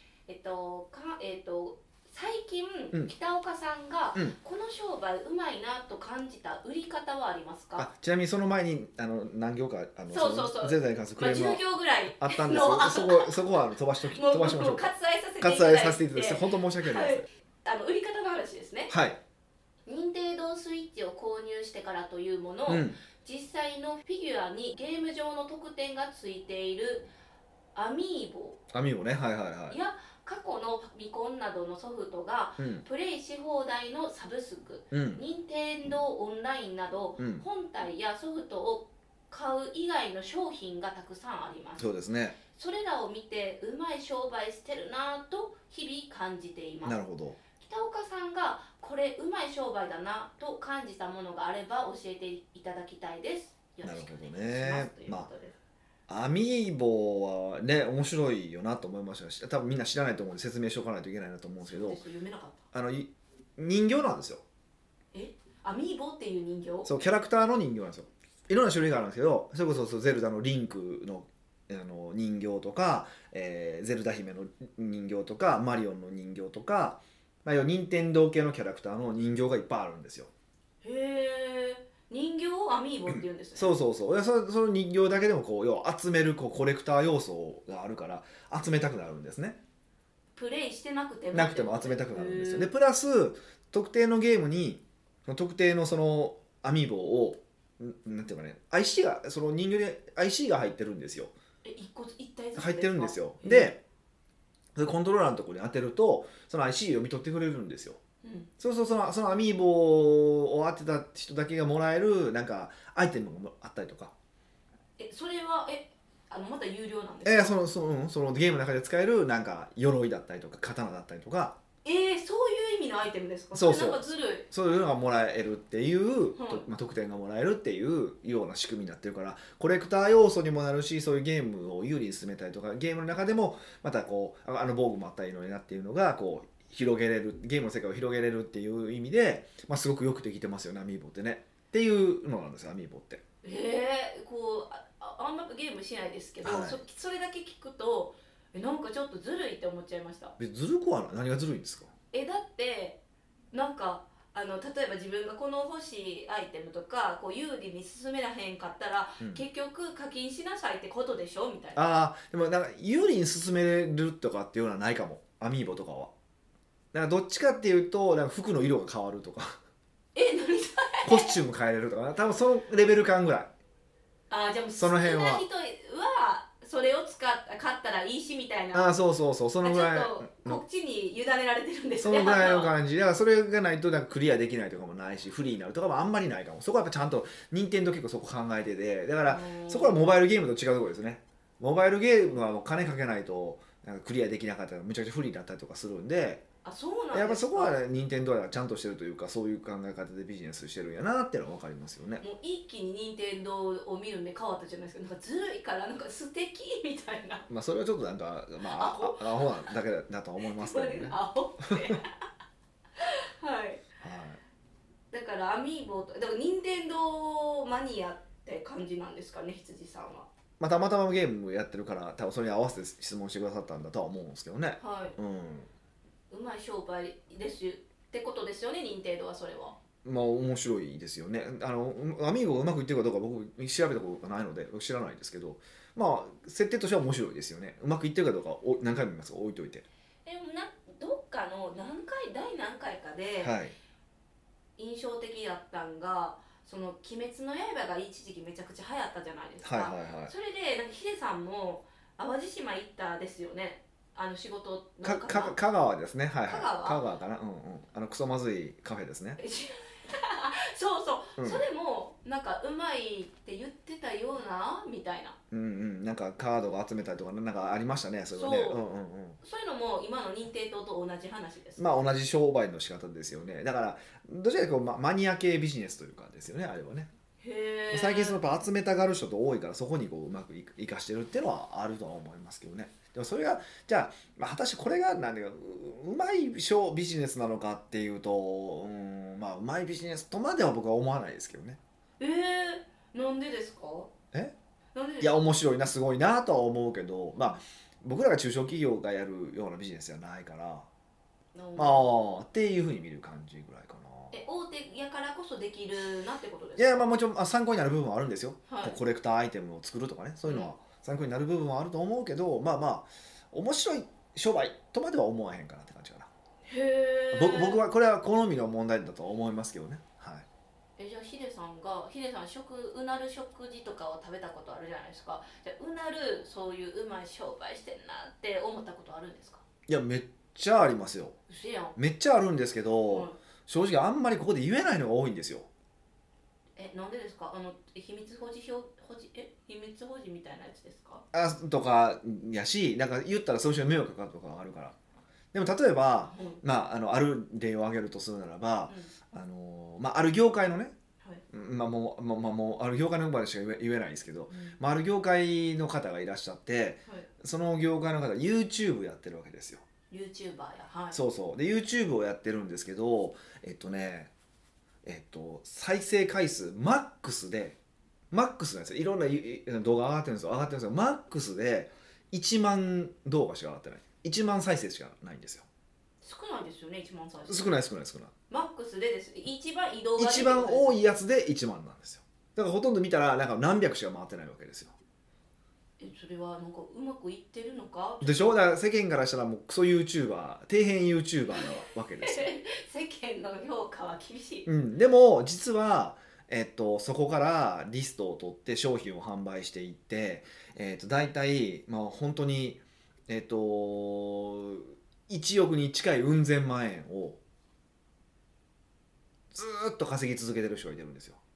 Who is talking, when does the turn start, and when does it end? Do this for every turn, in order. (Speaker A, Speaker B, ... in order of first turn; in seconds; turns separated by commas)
Speaker A: 0.3-7.9, Speaker B: 7.8-11.6, Speaker A: 10.1-13.4, Speaker B: 12.2-14.9, Speaker A: 14.1-18.9, Speaker B: 15.4-17.2, Speaker B: 18.9-19.2, Speaker A: 19.9-27.1, Speaker B: 22.7-23.0, Speaker A: 27.7-28.6, Speaker B: 28.7-29.8, Speaker A: 29.7-41.8, Speaker B: 32.6-32.8, Speaker B: 34.9-35.2, Speaker B: 37.2-37.4, Speaker B: 41.8-42.4, Speaker A: 42.5-47.0, Speaker B: 46.8-47.4, Speaker A: 47.6-55.5, Speaker B: 53.8-55.3, Speaker B: 56.1-62.0, Speaker A: 61.6-62.6, Speaker B: 62.7-64.4, Speaker A: 65.1-66.9, Speaker B: 66.8-80.3, Speaker A: 80.8-83.7, Speaker B: 83.1-89.6, Speaker A: 90.3-92.7, Speaker B: 91.3-101.3, Speaker A: 101.6-103.7, Speaker B: 102.5-103.8, Speaker B: 104.8-108.0, Speaker A: 108.2-108.5, Speaker B: 108.6-114.1, Speaker A: 115.0-117.5, Speaker B: 117.2-121.5, Speaker A: 121.8-124.5, Speaker B: 123.5-143.2, Speaker A: 126.3-126.7, Speaker A: 143.4-150.3, Speaker B: 146.4-146.8, Speaker B: 150.4-151.9, Speaker A: 152.1-153.0, Speaker A: 153.5-161.8, Speaker B: 161.8-166.1, Speaker B: 166.9-169.6, Speaker A: 170.1-171.3, Speaker B: 171.0-173.5, Speaker A: 174.3-178.9, Speaker B: 174.8-175.4, Speaker B: 178.7-180.6, Speaker A: 179.6-182.7, Speaker B: 182.0-196.4, Speaker A: 189.3-190.0, Speaker A: 196.6-197.8, Speaker B: 197.1-202.2, Speaker A: 202.2-207.5, Speaker B: 207.5-212.0, Speaker A: 208.6-209.7, Speaker A: 210.4-212.1, Speaker A: 212.9-213.8, Speaker B: 214.0-214.4, Speaker A: 215.1-220.3, Speaker B: 220.6-225.7, Speaker A: 224.8-225.2, Speaker A: 226.3-229.8, Speaker B: 230.0-239.8, Speaker A: 240.2-243.5, Speaker B: 243.4-243.7, Speaker A: 244.8-255.6, Speaker B: 249.6-250.3, Speaker B: 255.0-259.4, Speaker A: 256.5-257.0, Speaker A: 259.4-265.4, Speaker B: 261.4-261.6, Speaker B: 265.5-269.4, Speaker A: 268.3-268.8, Speaker A: 269.4-271.8, Speaker B: 271.8-277.1, Speaker A: 277.4-278.4, Speaker B: 277.9-291.8, Speaker A: 292.2-294.1, Speaker A: 294.9-295.4, Speaker B: 295.2-300.9, Speaker A: 301.5-302.1, Speaker B: 301.8-304.4, Speaker A: 304.3-307.1, Speaker B: 306.8-316.3, Speaker A: 308.7-309.0, Speaker A: 310.5-310.7, Speaker A: 316.6-317.8, Speaker B: 317.3-320.4, Speaker A: 321.0-329.6, Speaker B: 329.9-331.4, Speaker A: 331.5-331.9, Speaker B: 331.9-335.7, Speaker A: 333.1-333.4, Speaker A: 336.8-341.2, Speaker B: 341.3-344.9, Speaker B: 345.5-350.9, Speaker A: 346.3-346.6, Speaker B: 351.5-359.8, Speaker A: 354.5-354.8, Speaker A: 360.1-361.2, Speaker B: 361.1-364.3, Speaker B: 365.0-367.8, Speaker B: 368.3-375.6, Speaker A: 376.2-377.7, Speaker B: 377.5-378.3, Speaker A: 378.5-381.0, Speaker B: 380.2-384.9, Speaker A: 386.0-388.6, Speaker B: 388.2-392.5, Speaker A: 392.2-394.7, Speaker B: 394.6-407.4, Speaker B: 409.5-411.4